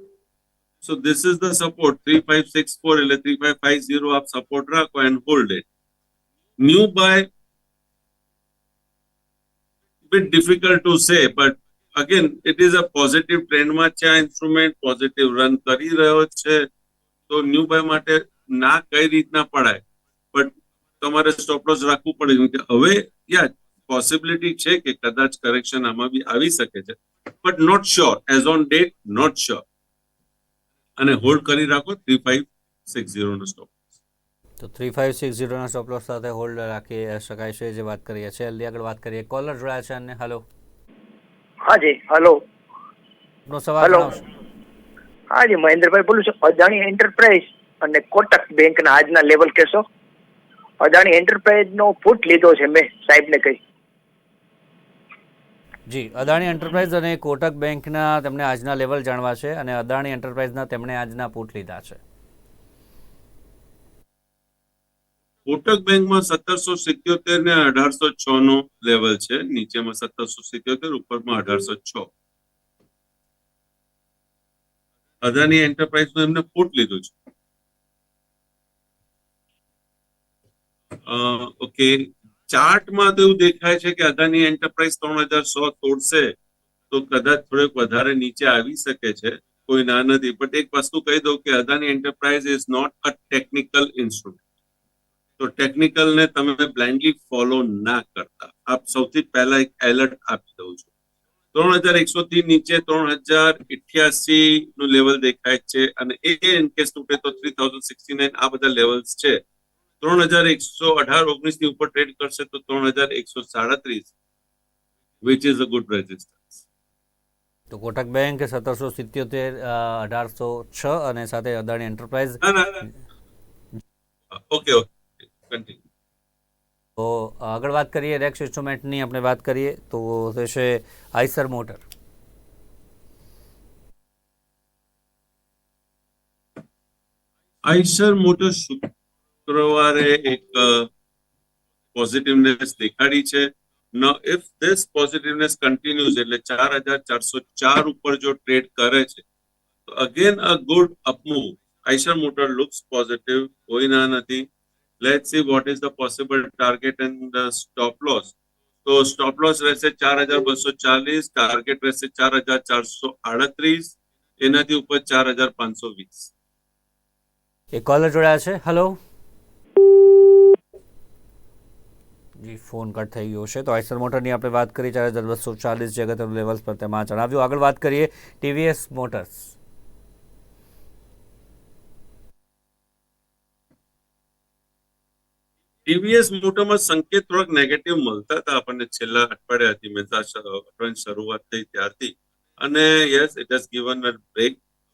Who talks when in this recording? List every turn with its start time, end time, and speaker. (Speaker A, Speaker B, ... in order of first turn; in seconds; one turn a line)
Speaker A: 0.8-5.7
Speaker A: 6.6-7.3
Speaker A: 10.1-16.7
Speaker A: 17.3-29.6
Speaker A: 31.0-33.8
Speaker B: 34.6-40.4
Speaker C: 41.7-42.4
Speaker B: 43.5-44.2
Speaker C: 43.8-44.1
Speaker C: 45.3-49.8
Speaker C: 50.8-53.6
Speaker B: 55.9-62.0
Speaker A: 65.5-72.1
Speaker A: 75.2-77.2
Speaker A: 81.0-86.3
Speaker A: 86.9-94.4
Speaker A: 95.4-100.9
Speaker A: 101.5-109.4
Speaker A: 110.0-114.1
Speaker A: 115.2-116.6
Speaker B: 117.7-122.4
Speaker A: 122.4-122.8
Speaker A: 124.3-125.8
Speaker B: 127.0-131.8
Speaker A: 137.6-138.9
Speaker A: 139.4-140.9
Speaker A: 141.9-149.2
Speaker A: 149.9-154.5
Speaker A: 155.0-158.3
Speaker A: 158.8-166.3
Speaker B: 167.7-169.0
Speaker B: 172.4-179.5
Speaker A: 185.8-194.6